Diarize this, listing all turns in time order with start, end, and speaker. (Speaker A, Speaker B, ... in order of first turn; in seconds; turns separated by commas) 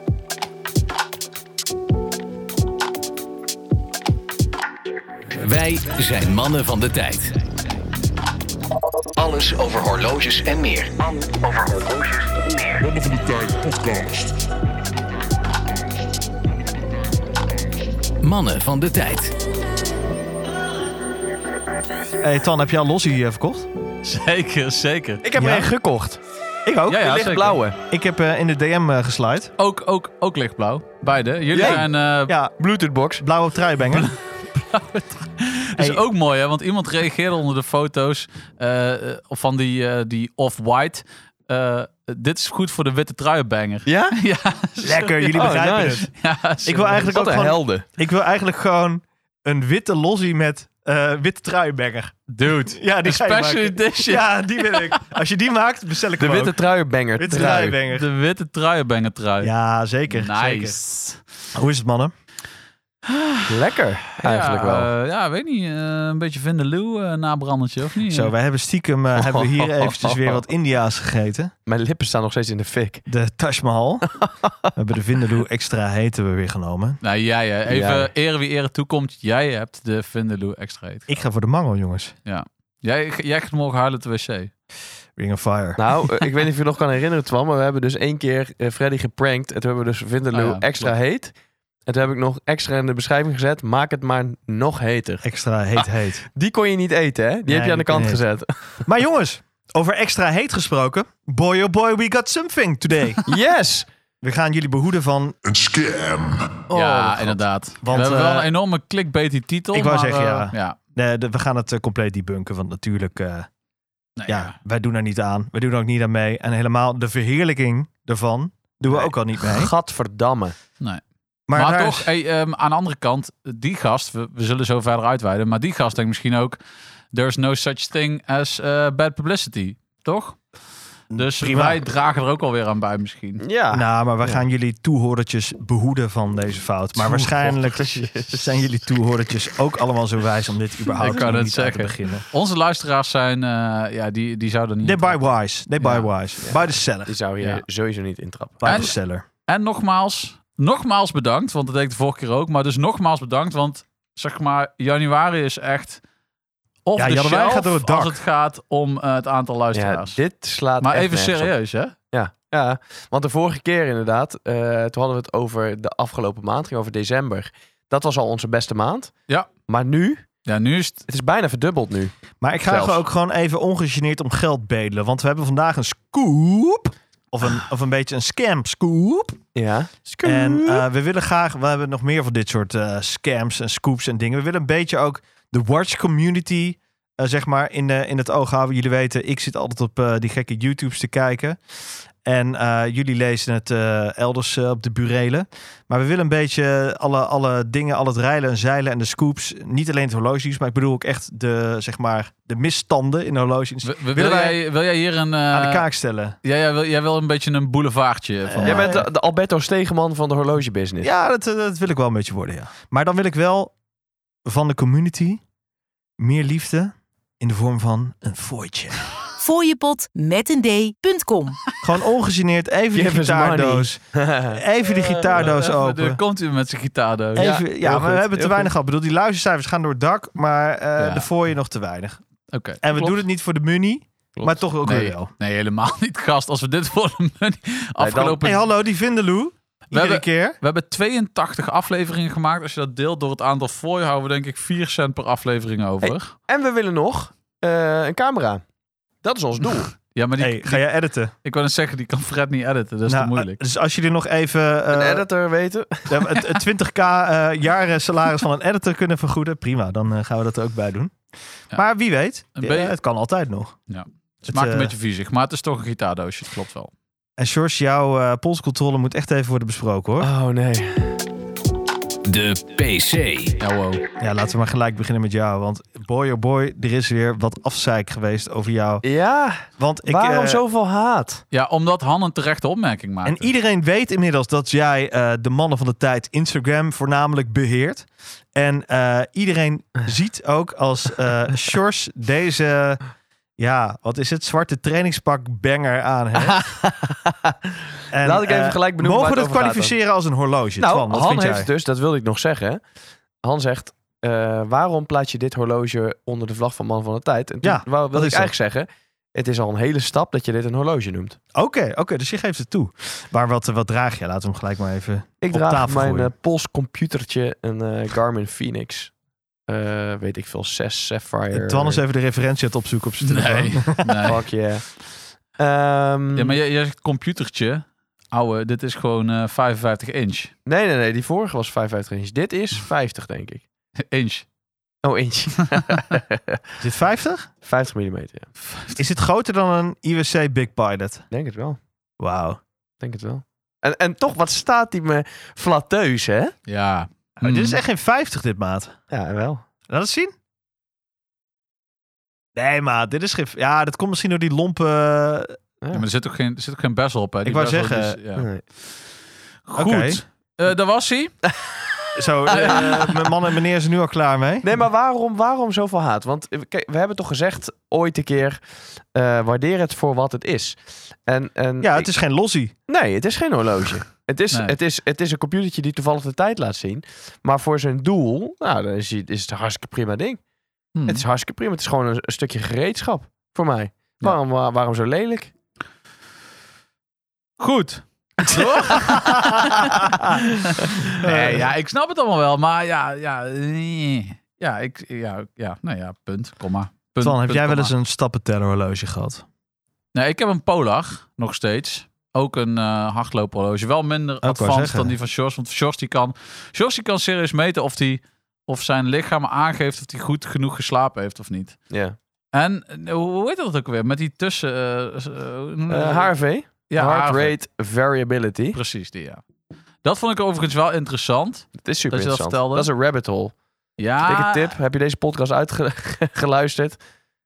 Speaker A: 5.4-7.4, Speaker A: 9.2-12.6, Speaker B: 12.8-14.4, Speaker A: 18.2-19.4, Speaker C: 22.2-23.7, Speaker D: 24.0-25.2, Speaker E: 25.2-26.2, Speaker C: 25.4-25.7, Speaker C: 26.6-29.5, Speaker D: 26.9-27.6, Speaker E: 27.1-27.8, Speaker D: 29.6-32.3, Speaker E: 31.5-31.9, Speaker C: 31.5-32.5, Speaker E: 32.6-33.2, Speaker C: 33.2-34.1, Speaker D: 33.9-47.1, Speaker C: 35.8-36.0, Speaker E: 43.9-44.1, Speaker C: 44.8-46.1, Speaker E: 45.4-46.1, Speaker C: 46.6-56.6, Speaker E: 46.8-47.8, Speaker D: 52.3-55.1, Speaker E: 56.2-57.8, Speaker C: 57.1-58.1, Speaker D: 57.3-59.5, Speaker C: 59.4-60.8, Speaker D: 60.1-61.2, Speaker C: 61.5-62.1, Speaker D: 63.0-63.7, Speaker E: 63.5-64.9, Speaker D: 64.2-68.3, Speaker C: 68.0-71.5, Speaker E: 69.2-70.4, Speaker E: 71.7-73.0, Speaker C: 73.1-74.1, Speaker E: 74.2-74.7, Speaker C: 74.7-77.0, Speaker D: 77.0-81.1, Speaker E: 77.7-78.1, Speaker C: 81.1-82.2, Speaker D: 82.2-84.5, Speaker C: 85.2-85.8, Speaker E: 85.8-91.3, Speaker D: 90.3-90.9, Speaker E: 91.8-95.2, Speaker C: 95.2-96.2, Speaker E: 96.3-98.5, Speaker C: 97.5-98.2, Speaker C: 98.8-103.2, Speaker E: 103.3-103.9, Speaker C: 104.2-105.3, Speaker B: 105.4-106.7, Speaker E: 106.7-107.4, Speaker D: 106.7-110.8, Speaker C: 107.8-108.5, Speaker C: 109.7-113.5, Speaker D: 114.2-114.5, Speaker C: 114.3-119.7, Speaker E: 118.9-120.5, Speaker C: 121.5-122.1, Speaker D: 121.5-126.6, Speaker D: 127.1-130.5, Speaker C: 131.1-131.8, Speaker D: 131.1-133.4, Speaker E: 133.4-134.4, Speaker C: 133.7-142.2, Speaker E: 137.0-138.6, Speaker D: 141.0-145.2, Speaker C: 144.8-147.2, Speaker D: 145.8-146.1, Speaker E: 146.4-148.8, Speaker C: 148.6-149.2, Speaker D: 148.6-148.9, Speaker D: 149.5-156.0, Speaker D: 156.8-160.2, Speaker C: 156.9-158.2, Speaker E: 159.7-161.5, Speaker D: 160.8-161.9, Speaker E: 162.1-170.2, Speaker D: 170.4-171.0, Speaker E: 171.1-172.1, Speaker C: 172.4-179.4, Speaker E: 172.7-173.0, Speaker E: 179.5-180.8, Speaker C: 180.2-191.6, Speaker C: 192.2-204.6, Speaker D: 203.8-205.9, Speaker C: 205.5-206.3, Speaker D: 206.4-209.0, Speaker C: 208.5-209.1, Speaker E: 208.6-211.1, Speaker C: 211.0-213.7, Speaker C: 214.4-215.4, Speaker C: 216.2-219.0, Speaker F: 219.4-221.6, Speaker C: 221.8-226.2, Speaker E: 222.9-224.6, Speaker D: 225.2-227.5, Speaker C: 227.3-232.2, Speaker E: 227.3-228.7, Speaker D: 231.0-231.3, Speaker D: 232.5-232.8, Speaker C: 232.8-235.3, Speaker E: 234.3-234.6, Speaker D: 234.8-238.6, Speaker E: 238.0-238.3, Speaker C: 238.0-240.6, Speaker D: 239.9-246.3, Speaker E: 246.0-248.6, Speaker E: 249.2-249.9, Speaker D: 250.1-250.8, Speaker C: 250.4-251.3, Speaker D: 251.4-253.6, Speaker C: 253.1-255.2, Speaker E: 254.9-256.6, Speaker C: 256.1-261.2, Speaker C: 261.7-263.8, Speaker D: 262.6-262.9, Speaker D: 263.9-266.9, Speaker C: 264.5-264.9, Speaker C: 267.4-270.3, Speaker E: 270.2-271.2, Speaker A: 272.2-273.6, Speaker D: 273.6-274.0, Speaker C: 274.2-279.0, Speaker E: 279.0-281.4, Speaker C: 279.8-280.6, Speaker D: 281.5-283.5, Speaker C: 283.2-293.0, Speaker C: 293.6-296.6, Speaker E: 296.4-299.9, Speaker C: 298.1-301.7, Speaker E: 300.8-302.8, Speaker E: 303.4-311.4, Speaker C: 307.6-308.5, Speaker C: 311.5-316.3, Speaker E: 315.4-319.1, Speaker E: 319.7-322.0, Speaker C: 321.5-324.3, Speaker D: 323.2-324.4, Speaker E: 324.2-326.6, Speaker D: 326.3-330.5, Speaker E: 330.6-333.6, Speaker D: 334.0-334.4, Speaker E: 335.0-336.6, Speaker C: 336.8-337.5, Speaker E: 337.6-338.5, Speaker D: 338.6-339.0, Speaker C: 338.9-341.2, Speaker E: 341.3-341.8, Speaker C: 342.2-342.6, Speaker E: 343.0-346.5, Speaker D: 346.7-347.8, Speaker C: 347.4-349.0, Speaker E: 349.1-349.6, Speaker C: 349.9-350.3, Speaker C: 352.6-355.5, Speaker D: 355.9-358.6, Speaker C: 357.4-358.2, Speaker E: 358.4-358.6, Speaker D: 359.7-361.4, Speaker C: 359.7-360.2, Speaker C: 362.1-364.6, Speaker E: 362.4-363.2, Speaker D: 362.5-362.9, Speaker E: 364.6-372.1, Speaker C: 371.8-372.7, Speaker E: 372.9-380.4, Speaker D: 374.5-374.8, Speaker D: 380.9-381.2, Speaker E: 381.1-385.5, Speaker D: 387.6-397.9, Speaker E: 388.4-389.0, Speaker C: 389.0-390.4, Speaker C: 391.2-391.7, Speaker C: 397.2-399.4, Speaker D: 400.1-411.9, Speaker C: 404.4-405.1, Speaker E: 411.9-412.1, Speaker D: 412.5-417.5, Speaker E: 415.9-418.8, Speaker D: 418.7-419.4, Speaker D: 420.0-422.9, Speaker E: 421.8-423.6, Speaker D: 424.0-424.8, Speaker E: 424.2-427.0